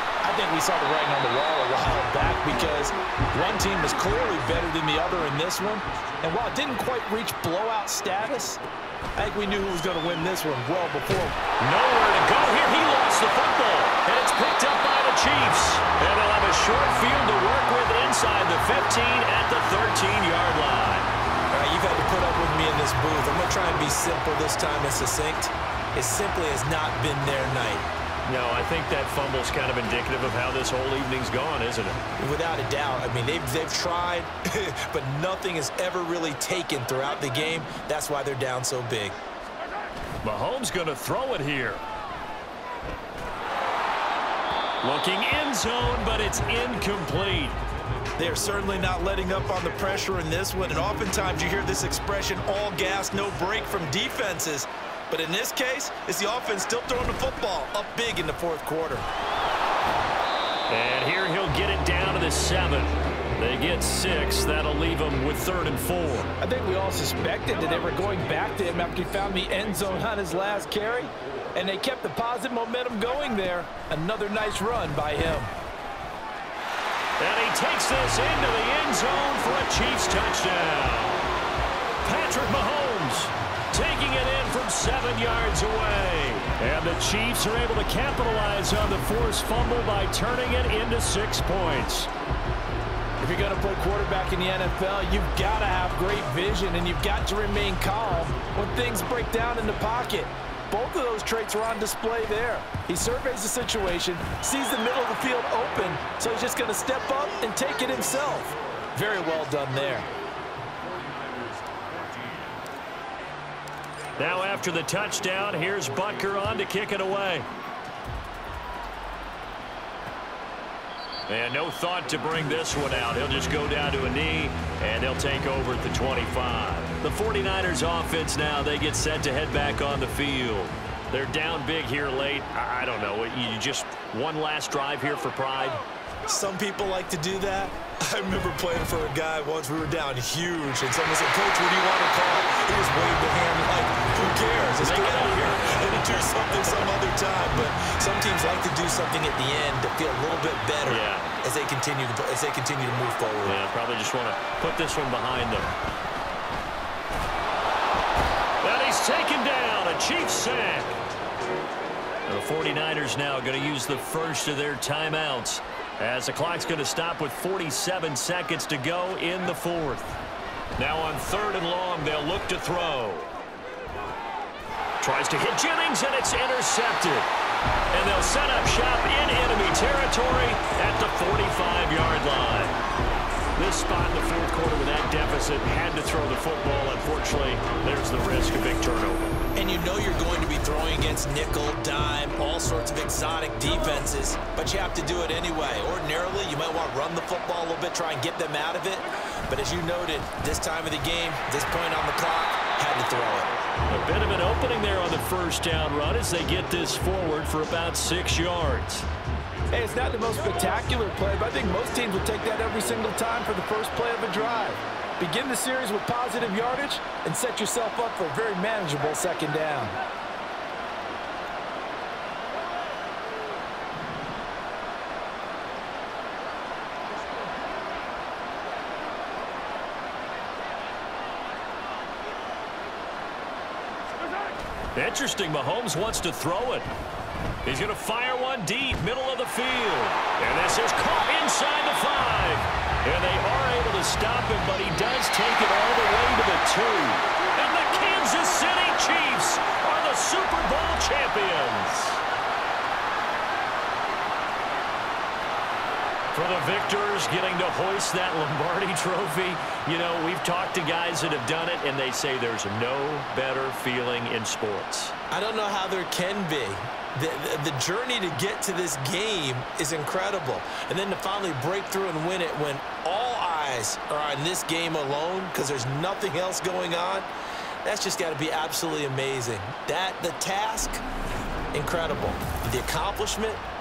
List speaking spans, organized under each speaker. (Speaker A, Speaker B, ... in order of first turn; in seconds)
Speaker A: 0.2-8.6, 9.2-11.4, 21.5-27.9, 32.2-39.2, 48.2-59.0, 66.4-75.5, 93.2-110.1, 136.2-153.6, 189.5-203.5, 209.7-219.9, 265.3-277.3, 277.8-281.0, 281.7-283.6
Speaker B: 11.6-21.1, 28.2-32.0, 40.2-41.8, 44.8-47.6, 60.7-66.3, 77.2-81.3, 82.0-92.1, 114.2-117.5, 121.3-135.8, 144.8-146.8, 150.9-151.4, 153.4-155.8, 158.6-161.0, 162.2-170.2, 170.8-173.3, 175.0-177.3, 177.9-182.8, 183.6-189.3, 203.9-209.1, 234.9-236.9, 237.6-252.2, 256.3-265.1